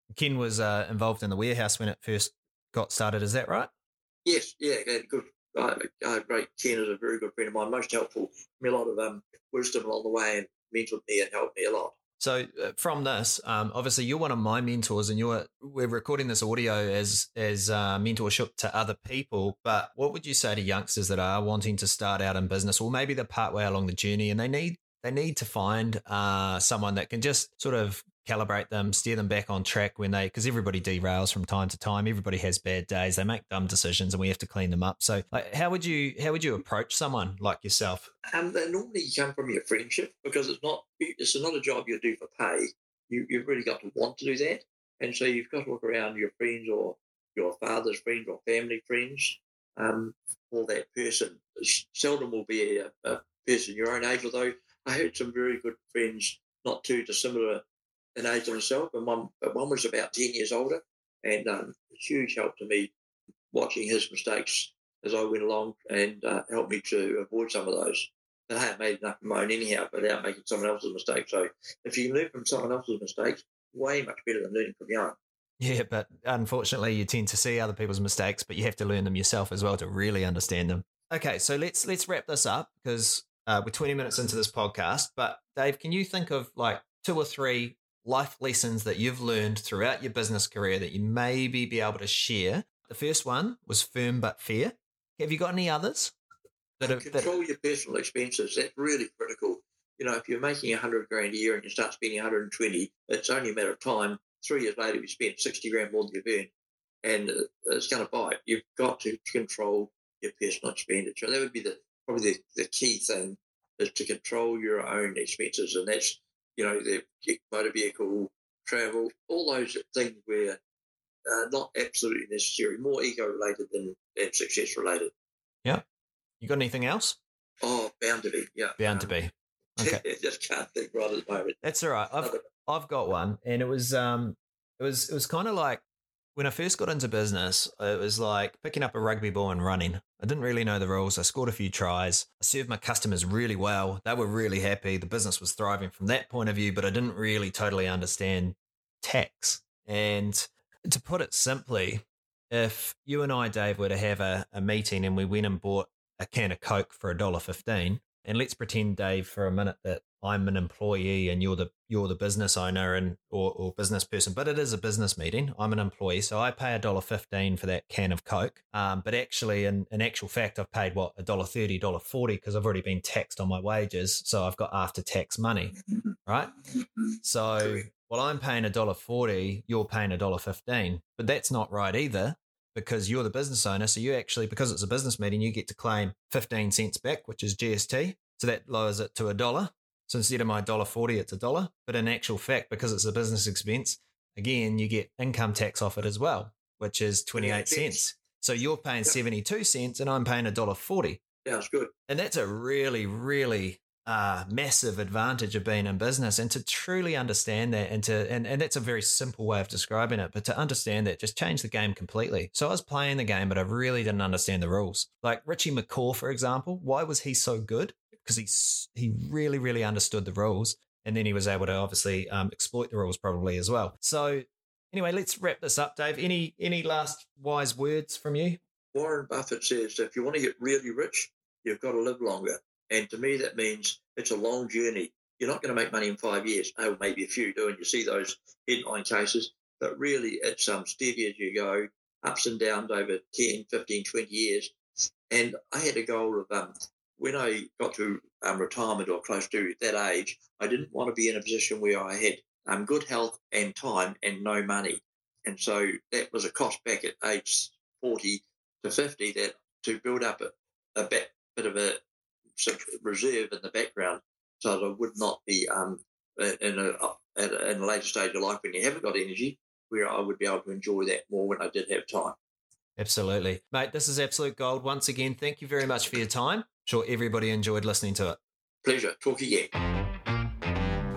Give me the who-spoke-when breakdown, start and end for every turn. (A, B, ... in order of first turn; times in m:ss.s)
0:00.1-0:03.7 A
0:04.2-0:12.0 B
0:12.2-0:38.1 A
0:38.3-0:57.6 B
0:58.2-1:02.9 B
1:03.5-1:15.2 B
1:15.6-1:36.1 A
1:36.8-1:37.3 A
1:36.8-1:46.5 B
1:47.0-2:00.6 B
2:01.3-2:05.1 B
2:06.4-2:07.2 A
2:07.6-2:09.1 B
2:08.8-2:10.0 A
2:09.8-2:11.6 B
2:11.6-2:15.8 A
2:12.2-2:12.4 B
2:16.4-2:56.6 A
2:57.2-3:21.2 A
3:17.4-3:18.1 B
3:21.4-3:21.9 B
3:22.1-3:48.6 A
3:48.9-4:04.8 B
4:05.3-4:22.0 B
4:22.6-4:32.4 B
4:33.0-4:38.4 A
4:38.8-4:39.7 B